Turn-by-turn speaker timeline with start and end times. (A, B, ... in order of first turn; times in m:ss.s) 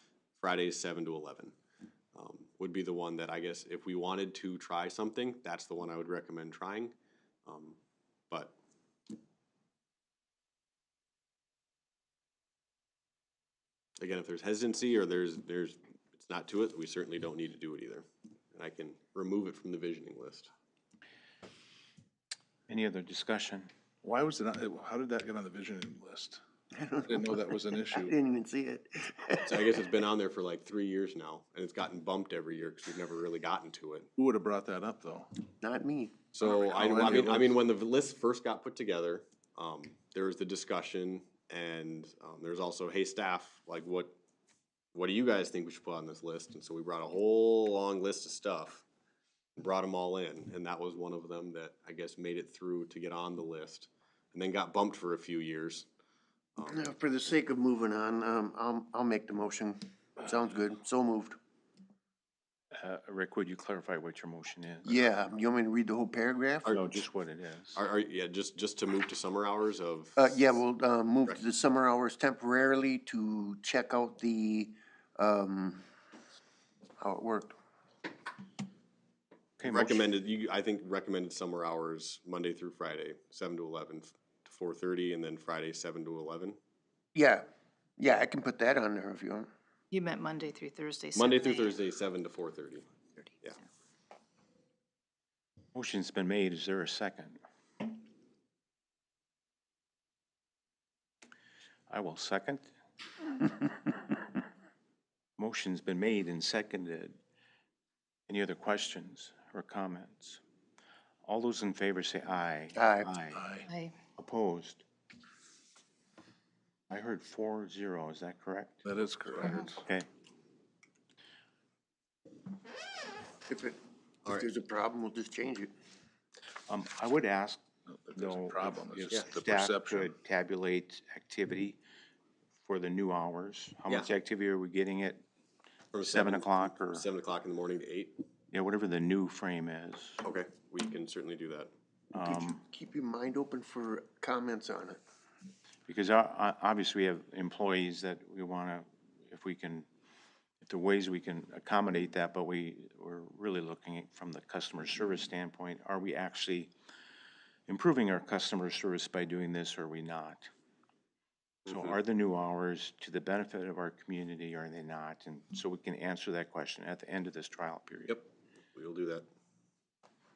0:00.4-0:01.5 A
0:02.1-0:06.9 A
0:07.4-0:07.8 A
0:14.0-0:20.5 A
0:22.7-0:23.7 B
0:24.0-0:26.4 C
0:26.7-0:29.7 D
0:27.0-0:28.1 C
0:29.4-0:34.1 A
0:34.2-0:35.3 C
0:35.6-0:36.1 D
0:36.3-0:44.1 A
0:36.4-0:37.5 C
0:44.9-0:48.8 A
0:49.6-0:55.9 A
0:56.6-0:56.9 A
0:56.7-1:01.4 D
1:02.7-1:05.0 B
1:04.8-1:06.7 D
1:06.7-1:07.8 B
1:07.7-1:10.4 A
1:10.2-1:15.8 D
1:17.0-1:17.5 D
1:19.6-1:20.0 B
1:19.6-1:26.6 A
1:27.1-1:27.4 D
1:28.0-1:29.5 D
1:29.9-1:31.7 E
1:31.2-1:32.9 A
1:35.7-1:37.4 B
1:41.9-1:42.7 B
1:45.4-1:47.2 B
1:48.3-1:50.4 B
1:51.2-1:53.4 B
1:52.7-1:53.1 D
1:53.3-1:53.6 C
1:53.7-1:53.9 E
1:54.2-1:54.8 B
1:56.9-1:58.7 B
1:58.8-1:59.8 C
1:59.4-2:00.0 B
2:03.5-2:05.7 D
2:06.7-2:07.6 B
2:07.9-2:10.1 C
2:08.1-2:11.8 B
2:12.6-2:15.2 B
2:15.9-2:18.2 A
2:16.0-2:17.1 B
2:18.5-2:20.2 B
2:20.2-2:21.7 A
2:22.1-2:22.6 B
2:22.2-2:25.0 D
2:25.9-2:29.8 B
2:30.6-2:36.7 B
2:37.7-2:40.5 B
2:41.6-2:48.2 B
2:48.1-2:49.2 A